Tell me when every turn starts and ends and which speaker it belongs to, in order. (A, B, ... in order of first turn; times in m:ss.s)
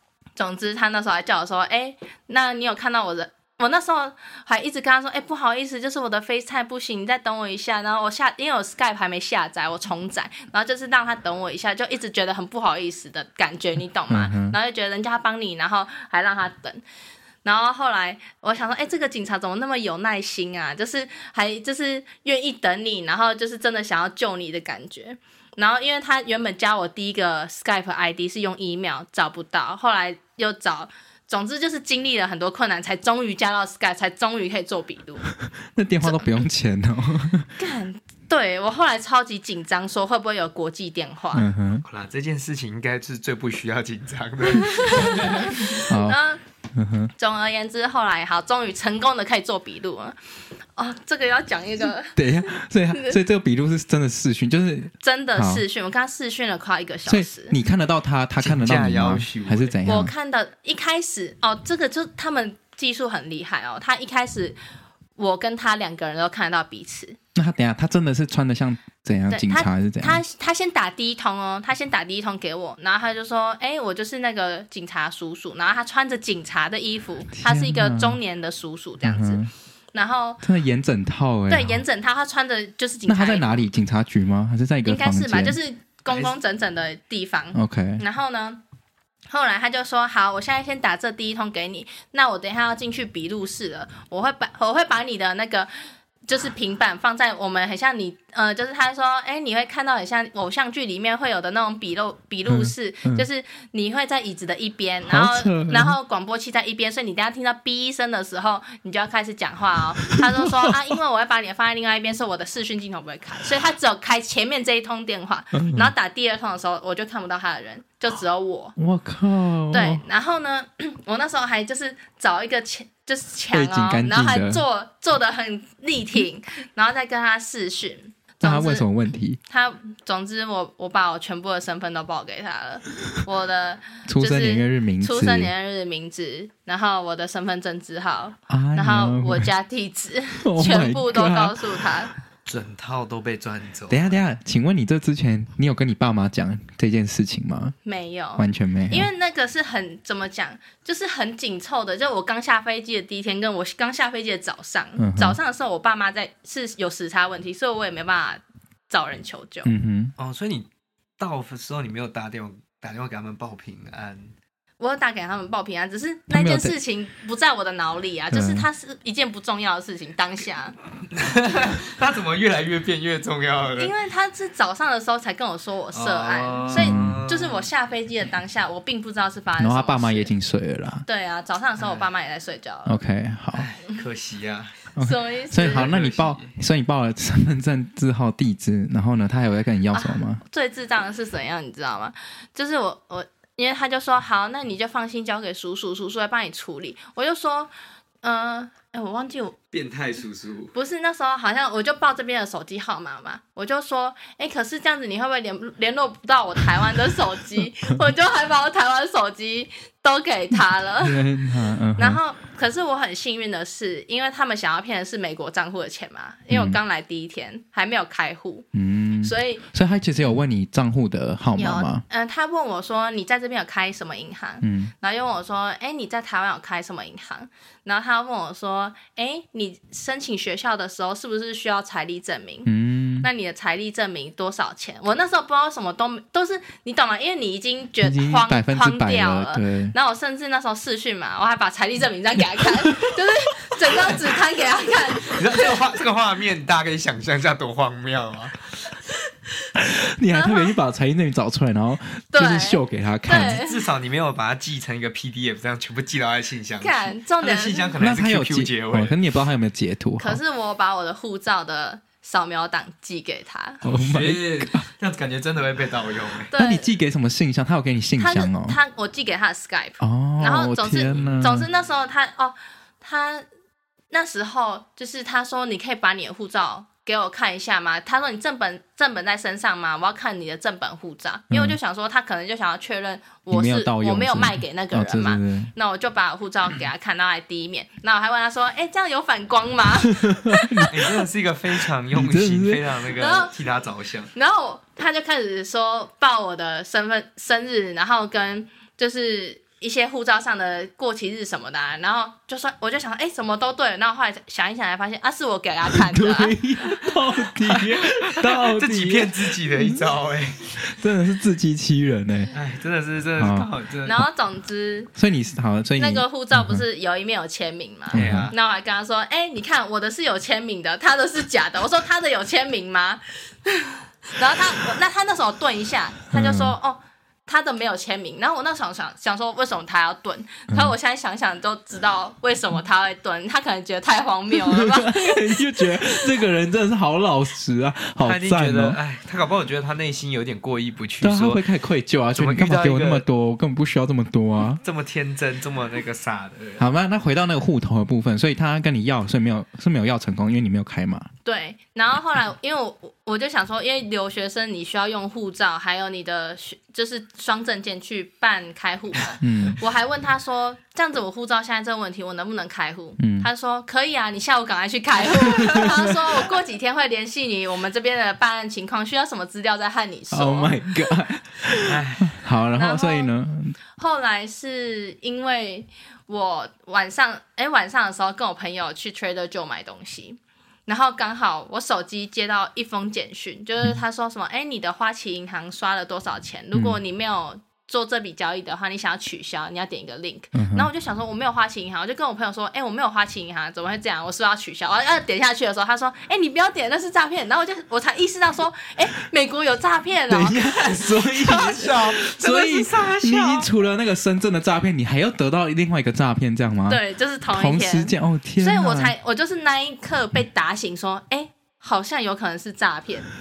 0:00.4-0:16.8 A
0:14.1-0:14.6 B
0:17.4-0:35.3 A
0:35.7-0:37.5 B
0:36.0-0:36.3 A
0:37.6-0:41.5 A
0:41.3-0:41.8 B
0:41.8-0:45.6 C
0:44.6-0:46.4 A
0:45.8-0:46.2 B
0:46.7-0:47.1 B
0:47.2-0:50.2 A
0:50.8-0:52.2 A
0:52.1-0:55.6 B
0:52.9-0:53.2 A
0:55.0-0:57.6 A
0:57.0-1:00.1 B
0:58.4-0:59.8 C
0:59.8-1:04.6 A
1:05.2-1:07.2 A
1:07.3-1:10.2 B
1:09.3-1:20.4 A
1:17.3-1:18.2 B
1:19.0-1:19.5 B
1:20.4-1:21.8 B
1:21.5-1:23.6 A
1:23.1-1:25.6 B
1:24.8-1:28.6 A
1:26.1-1:26.3 C
1:27.5-1:28.0 B
1:29.3-1:35.7 A
1:36.3-1:58.8 A
1:42.5-1:43.3 B
1:45.1-1:45.9 B
1:50.0-1:50.9 B
1:55.5-1:55.9 B
1:58.8-2:00.0 B
1:59.7-2:08.9 A
2:03.5-2:04.6 B
2:08.4-2:09.4 B
2:09.5-2:22.1 A
2:14.1-2:15.5 B
2:18.5-2:19.5 B
2:20.4-2:21.8 B
2:22.4-2:24.2 C
2:23.9-2:27.7 B
2:27.8-2:39.7 A
2:28.4-2:29.1 B
2:35.0-2:35.4 B
2:39.6-2:40.1 B
2:40.2-2:40.7 C
2:41.2-2:44.3 C
2:44.8-2:50.8 A
2:46.3-2:46.7 B
2:48.3-2:48.7 B
2:51.1-2:53.9 C
2:53.8-3:00.3 A
2:55.9-2:57.7 C
2:56.7-2:57.2 B
2:59.6-3:01.0 B
3:01.0-3:03.0 A
3:01.8-3:02.0 C
3:02.8-3:03.6 B
3:03.5-3:04.8 C
3:05.0-3:10.4 B
3:05.0-3:05.9 A
3:05.6-3:06.5 C
3:09.9-3:17.7 A
3:18.2-3:19.6 A
3:19.7-3:20.7 C
3:20.7-3:31.2 A
3:31.0-3:32.2 B
3:32.0-3:38.6 A
3:36.5-3:36.8 B
3:38.7-3:42.0 B
3:39.2-3:39.6 A
3:41.5-3:52.7 A
3:44.6-3:44.9 B
3:52.6-3:53.3 B
3:53.2-4:05.6 A
3:58.0-3:59.9 B
4:05.2-4:08.7 C
4:09.8-4:13.6 B
4:10.3-4:10.7 A
4:12.3-4:13.8 A
4:13.4-4:19.2 C
4:16.8-4:17.9 A
4:18.0-4:20.4 B
4:20.2-4:23.8 A
4:23.8-4:24.8 B
4:23.8-4:26.5 C
4:26.5-4:26.9 A
4:26.5-4:28.8 B
4:28.2-4:33.5 A
4:30.0-4:31.7 B
4:31.1-4:31.6 C
4:34.1-4:50.9 A
4:41.5-4:41.8 B
4:43.5-4:45.7 B
4:50.4-4:50.9 B
4:50.9-4:54.3 C
4:52.1-4:52.8 B
4:53.1-4:53.5 A
4:54.3-5:06.6 A
5:05.9-5:10.1 B
5:07.5-5:10.8 C
5:10.8-5:12.5 B
5:12.5-5:14.2 C
5:13.4-5:13.7 B
5:14.0-5:15.1 A
5:15.1-5:16.8 B
5:16.0-5:35.3 A
5:18.1-5:18.5 B
5:18.1-5:18.5 C
5:26.3-5:26.7 B
5:34.6-5:39.0 B
5:38.2-5:41.6 C
5:41.2-5:44.8 B
5:42.3-5:43.2 C
5:44.8-5:46.8 C
5:46.8-5:51.3 B
5:51.4-6:10.8 A
5:59.4-5:59.8 B
6:03.2-6:03.5 B
6:05.3-6:06.4 B
6:10.3-6:13.8 B
6:11.8-6:12.4 C
6:12.8-6:13.3 A
6:14.0-6:41.9 A
6:26.7-6:27.0 B
6:30.5-6:30.9 B
6:40.3-6:49.1 B
6:40.9-6:43.7 C
6:46.9-6:53.3 A